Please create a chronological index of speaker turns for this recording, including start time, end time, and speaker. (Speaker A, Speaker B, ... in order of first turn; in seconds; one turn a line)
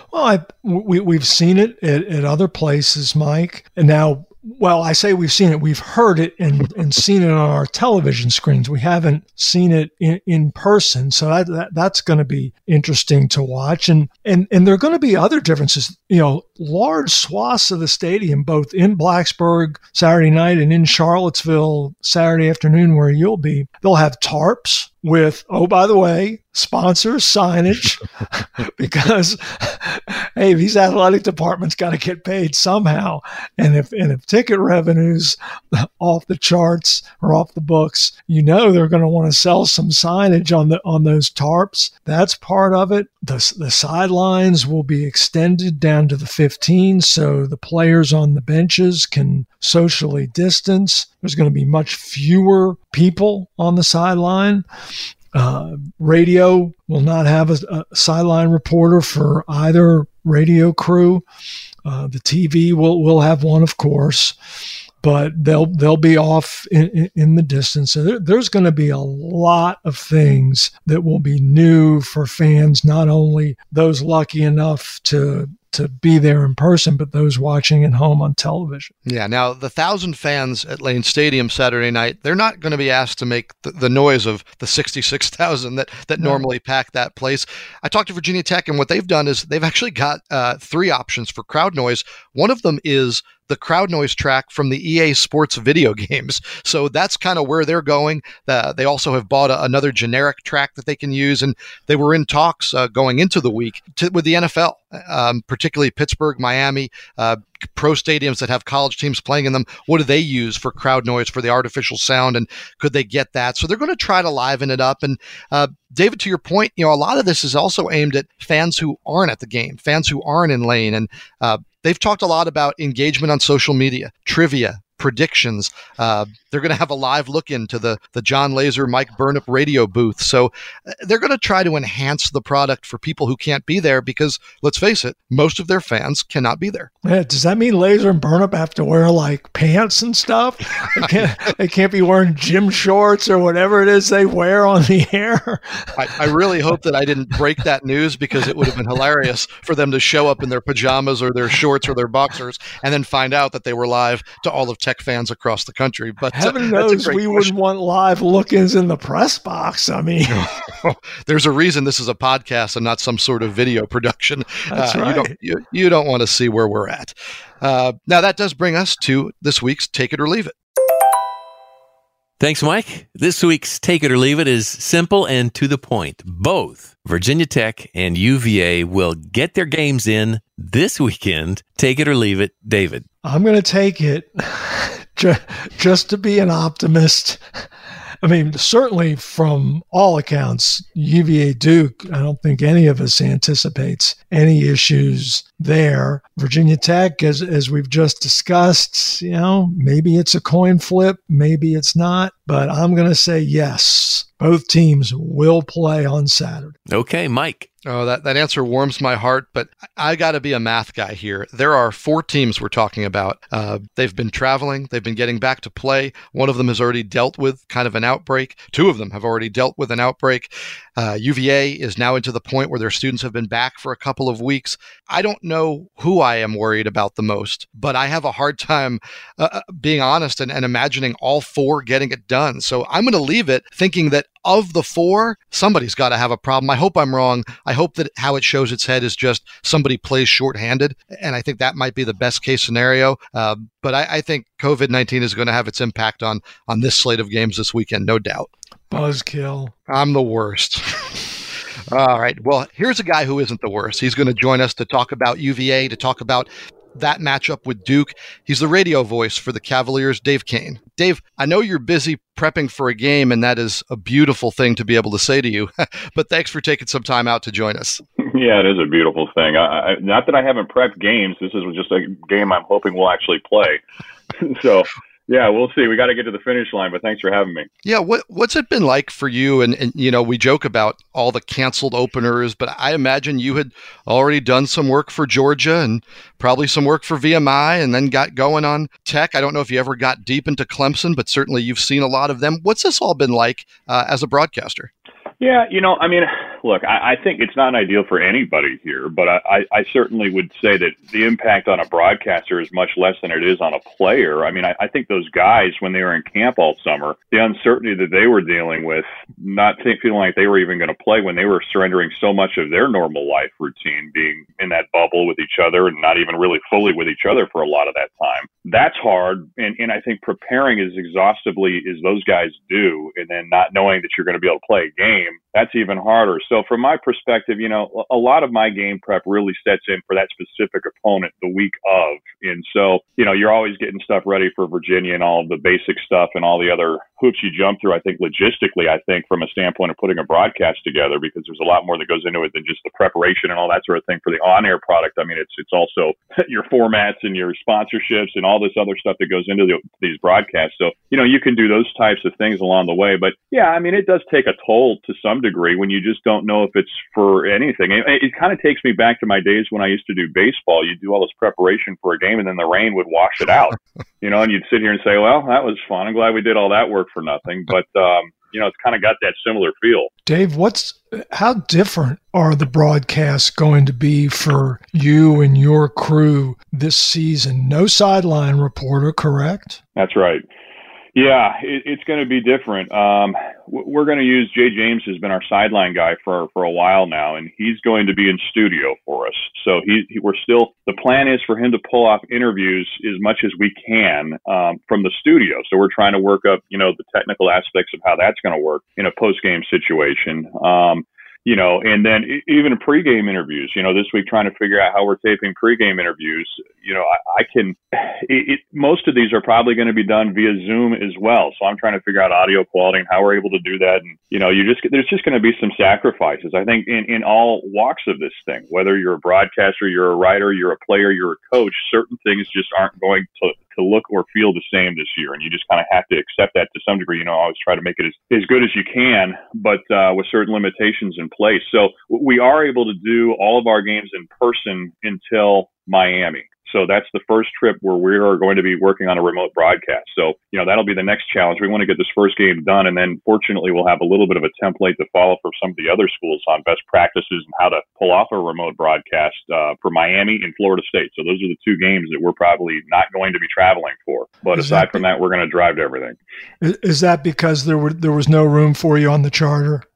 Speaker A: 0.1-54.6
Speaker A: 55.3-61.2
Speaker A: 61.8-64.3
Speaker A: 65.0-78.9
Speaker B: 79.0-136.9
Speaker A: 86.2-86.4
Speaker A: 137.0-146.3
Speaker B: 146.0-157.5
Speaker A: 156.3-160.4
Speaker B: 160.3-170.5
Speaker A: 164.7-165.3
Speaker C: 172.4-183.1
Speaker A: 183.2-187.4
Speaker A: 188.2-206.8
Speaker C: 206.9-207.7
Speaker B: 207.8-248.5
Speaker A: 248.9-249.7
Speaker B: 249.9-251.3
Speaker B: 251.9-268.0
Speaker D: 268.2-273.8
Speaker D: 274.3-277.7
Speaker B: 277.8-294.9
Speaker D: 295.4-370.1
Speaker A: 370.2-379.8
Speaker D: 379.9-380.4
Speaker D: 381.1-456.1
Speaker A: 454.5-455.0
Speaker A: 456.6-459.8